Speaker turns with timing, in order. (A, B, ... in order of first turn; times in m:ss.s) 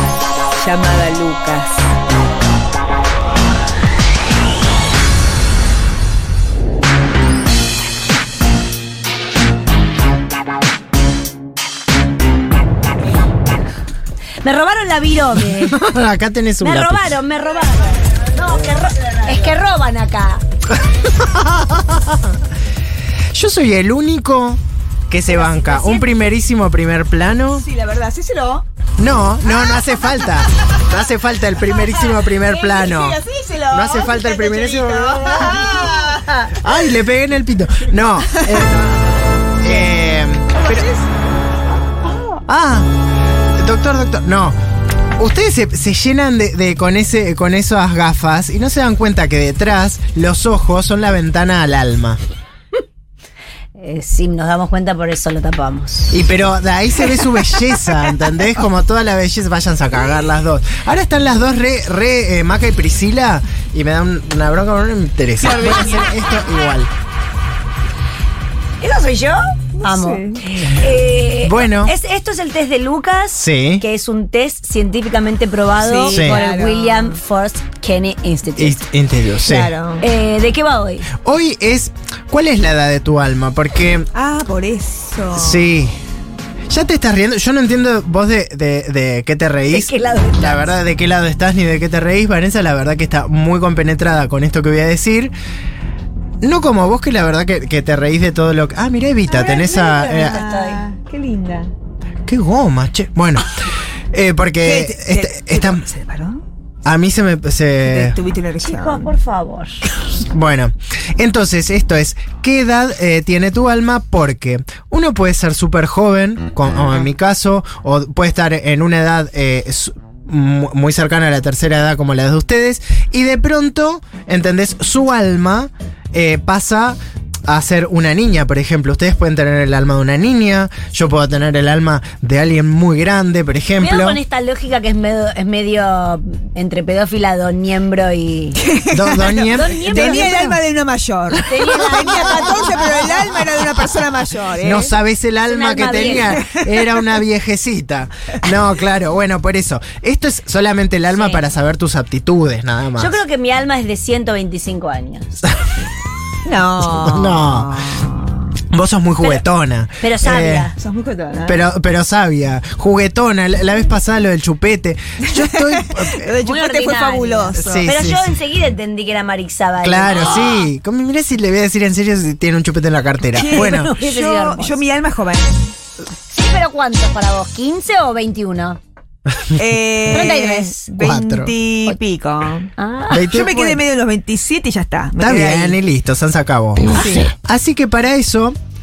0:00.5-0:01.8 A
0:14.4-0:15.8 B
0:15.4-0:17.2 C
0:16.6-0:20.4 B
0:18.3-0:19.5 A
0:20.7-0:22.4 C
0:23.3-0:27.6 C
0:25.3-0:26.1 B
0:27.5-0:28.6 A
0:29.0-0:35.7 C
0:29.7-0:30.7 A
0:31.7-0:36.7 A
0:36.5-0:38.9 C
0:38.3-0:38.7 A
0:39.6-0:40.9 C
0:40.5-0:41.1 A
0:42.4-0:42.9 C
0:43.6-0:44.6 C
0:45.2-0:52.2 C
0:53.8-0:56.2 B
0:56.1-1:06.9 C
1:08.8-1:18.8 B
1:09.8-1:10.5 A
1:11.4-1:11.9 C
1:13.4-1:13.8 C
1:15.8-1:17.2 A
1:16.1-1:16.4 C
1:18.6-1:19.7 C
1:19.4-1:20.0 A
1:20.0-1:21.1 B
1:21.1-1:24.1 C
1:24.1-1:25.7 A
1:25.3-1:25.9 C
1:26.7-1:35.3 C
1:29.7-1:30.7 B
1:36.4-1:40.4 C
1:39.3-1:40.8 B
1:40.0-1:41.7 A
1:42.2-1:43.5 C
1:44.1-1:45.8 C
1:44.6-1:46.4 A
1:46.8-1:48.2 C
1:47.8-1:49.1 A
1:48.6-1:49.8 B
1:50.2-2:14.2 C
2:13.8-2:18.6 B
2:18.6-2:24.9 A
2:18.9-2:20.2 C
2:19.4-2:20.6 B
2:21.4-2:23.5 B
2:24.6-2:33.2 C
2:25.5-2:26.4 B
2:26.3-2:27.0 A
2:31.1-2:31.4 B
2:33.0-2:35.3 B
2:36.4-2:38.5 A
2:36.8-2:37.8 C
2:38.7-2:40.7 C
2:40.0-2:40.7 B
2:40.8-2:41.6 A
2:41.5-2:46.3 C
2:45.2-2:47.9 A
2:46.3-2:50.7 B
2:47.6-2:48.3 C
2:49.8-2:53.9 C
2:53.3-2:55.7 A
2:53.4-2:54.8 B
2:56.3-2:58.8 B
2:59.5-3:05.8 A
3:00.1-3:00.9 B
3:01.0-3:01.5 C
3:02.8-3:03.8 B
3:03.1-3:03.7 C
3:05.2-3:08.6 C
3:06.9-3:07.3 A